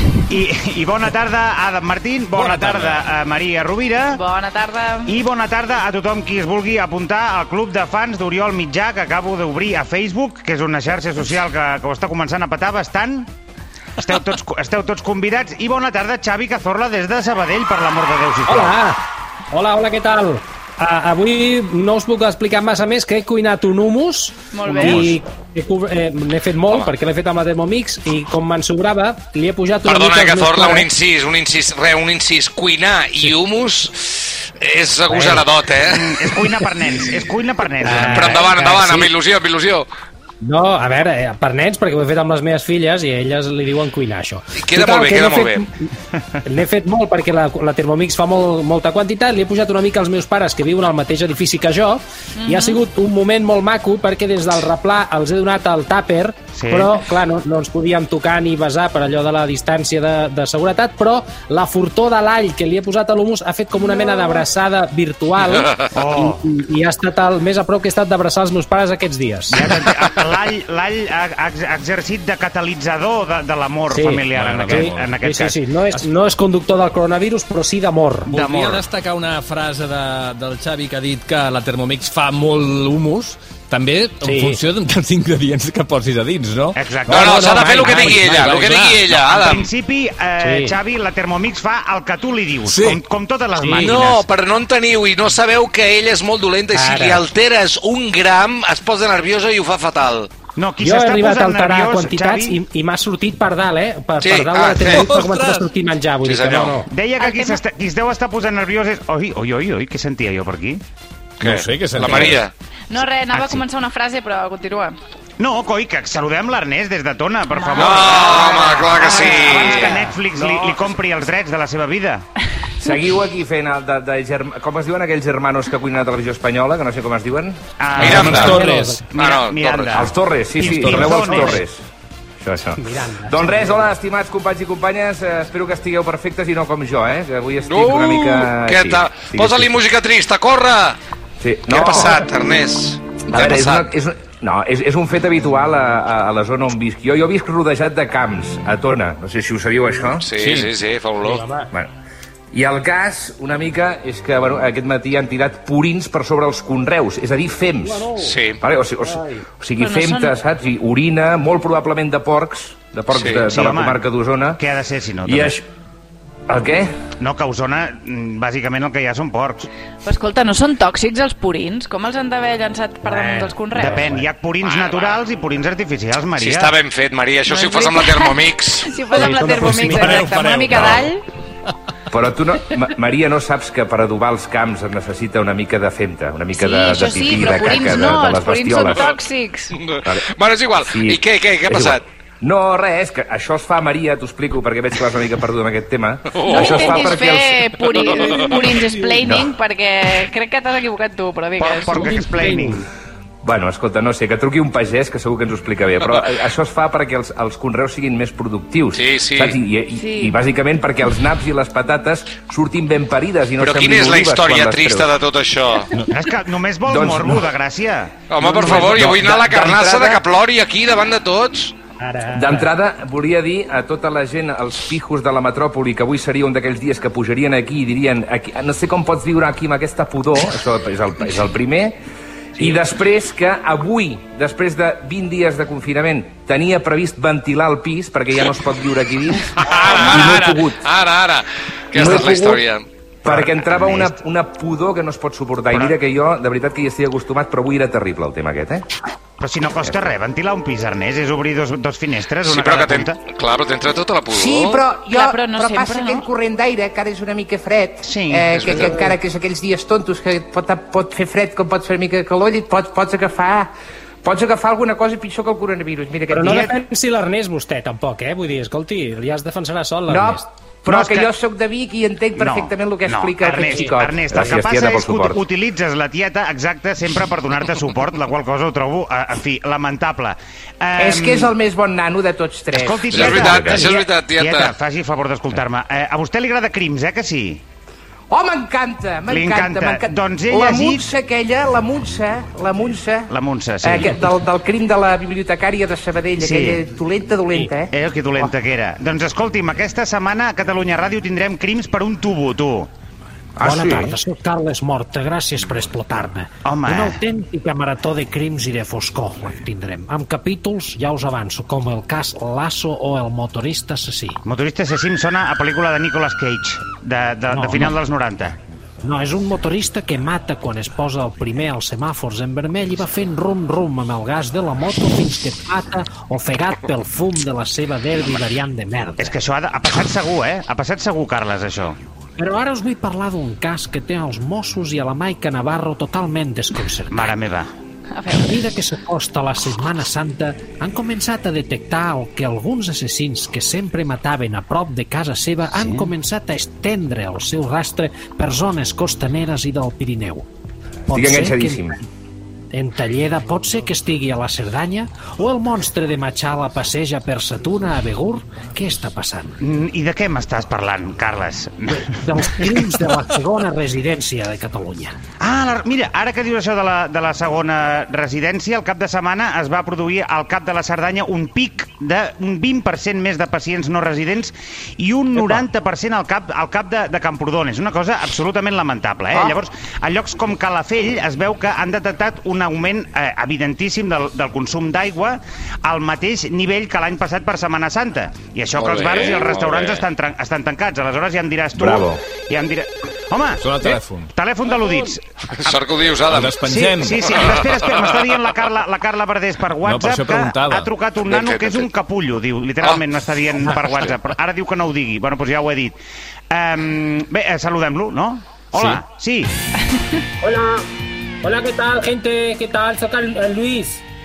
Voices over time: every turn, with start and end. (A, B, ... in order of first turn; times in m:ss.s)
0:00.3-0:04.2 A
0:02.4-0:02.9 B
0:04.1-0:05.1 C
0:05.1-0:13.3 A
0:14.0-0:18.7 A
0:18.4-0:30.9 D
0:24.5-0:25.2 C
0:24.8-0:25.0 A
0:29.8-0:36.1 E
0:35.1-0:35.5 D
0:35.8-0:38.5 A
0:37.8-0:39.1 D
0:37.9-0:39.9 E
0:40.4-0:45.9 D
0:44.5-0:45.6 E
0:46.4-1:09.6 D
0:52.4-0:52.8 C
0:56.6-0:57.0 A
1:04.0-1:04.4 C
1:05.9-1:06.4 A
1:09.5-1:15.6 A
1:13.9-1:18.3 D
1:14.3-1:15.1 B
1:18.3-1:18.9 A
1:18.3-1:26.8 B
1:24.2-1:24.6 D
1:26.8-1:27.4 A
1:27.1-1:29.7 E
1:27.1-1:28.2 D
1:27.4-1:29.2 B
1:29.2-1:34.3 A
1:30.4-1:30.8 D
1:32.6-1:33.0 B
1:33.6-1:33.9 D
1:33.8-1:40.3 E
1:36.7-1:37.2 D
1:40.6-1:42.6 A
1:40.8-1:46.9 D
1:44.2-1:45.3 E
1:44.9-1:45.7 B
1:46.2-1:46.8 E
1:46.9-1:50.8 A
1:47.2-1:47.6 C
1:51.4-1:52.5 E
1:51.4-1:52.4 B
1:52.9-1:55.0 C
1:53.3-1:53.6 A
1:55.4-2:02.2 A
1:57.5-1:58.0 C
1:57.7-2:00.0 E
1:59.5-1:59.8 F
2:02.8-2:08.5 F
2:07.8-2:11.6 A
2:08.0-2:10.0 E
2:08.0-2:09.0 D
2:08.6-2:08.9 B
2:09.9-2:11.8 F
2:10.8-2:11.5 D
2:12.4-2:19.8 F
2:12.8-2:14.0 D
2:17.6-2:21.0 E
2:21.4-2:22.3 F
2:21.7-2:23.9 E
2:23.3-2:30.6 F
2:30.2-2:31.4 E
2:31.2-2:31.7 D
2:32.5-2:44.6 F
2:38.2-2:38.6 E
2:39.8-2:40.4 C
2:43.1-2:43.5 E
2:43.5-2:44.1 A
2:44.6-2:45.6 A
2:45.2-2:45.6 F
2:46.5-2:46.9 F
2:47.2-2:49.7 A
2:50.0-2:54.0 C
2:53.0-2:54.2 D
2:53.8-2:56.8 A
2:54.6-2:55.2 E
2:56.4-2:58.9 E
2:57.5-3:01.2 C
2:59.1-3:00.2 D
2:59.2-3:01.1 B
3:02.1-3:09.2 F
3:06.6-3:09.7 C
3:09.7-3:12.0 E
3:10.0-3:10.3 F
3:10.8-3:18.1 F
3:16.3-3:17.1 E
3:16.5-3:22.5 C
3:18.2-3:18.7 E
3:19.2-3:19.5 F
3:21.6-3:22.8 A
3:23.4-3:35.1 F
3:28.9-3:29.6 E
3:29.9-3:30.4 C
3:33.6-3:35.9 E
3:35.9-3:39.1 A
3:36.9-3:37.4 F
3:38.3-3:41.8 E
3:38.4-3:40.2 F
3:42.0-3:42.7 D
3:42.3-3:52.0 F
3:52.6-4:00.8 F
3:59.6-4:02.9 E
4:01.9-4:02.6 F
4:03.2-4:08.8 F
4:03.3-4:04.1 A
4:05.7-4:06.0 A
4:09.4-4:13.2 A
4:12.4-4:14.8 E
4:14.3-4:23.7 G
4:15.1-4:16.3 C
4:18.0-4:19.0 A
4:18.5-4:19.0 E
4:24.2-4:26.7 G
4:26.3-4:30.4 D
4:30.1-4:34.2 G
4:30.9-4:31.3 A
4:32.4-4:41.5 A
4:33.4-4:34.0 D
4:34.3-4:35.4 F
4:41.0-4:43.2 G
4:42.7-4:47.6 A
4:43.1-4:43.9 F
4:43.1-4:44.7 E
4:48.3-4:53.3 G
4:49.3-4:51.1 A
4:53.3-4:54.3 A
4:53.8-4:57.9 G
4:56.4-4:56.8 A
4:57.9-5:02.9 A
5:03.6-5:04.2 F
5:03.6-5:14.4 H
5:06.6-5:07.2 A
5:14.4-5:18.6 A
5:17.6-5:17.9 H
5:19.0-5:29.3 H
5:29.2-5:32.0 A
5:32.4-5:37.3 H
5:37.1-5:37.7 A
5:38.1-5:38.7 C
5:38.3-5:50.4 H
5:45.8-5:46.0 A
5:51.1-5:51.9 H
5:51.1-5:52.0 F
5:52.7-5:59.5 H
5:59.6-6:03.0 A
6:02.1-6:05.1 H
6:05.4-6:35.8 A
6:15.4-6:15.6 D
6:28.8-6:30.0 E
6:31.8-6:32.2 F
6:33.6-6:34.3 B
6:35.6-6:36.6 E
6:36.3-6:37.2 B
6:36.6-6:45.9 A
6:37.2-6:38.1 E
6:39.8-6:40.9 B
6:41.2-6:41.9 E
6:43.6-6:44.1 E
6:46.5-6:49.5 A
6:50.4-6:50.9 D
6:51.4-6:54.0 D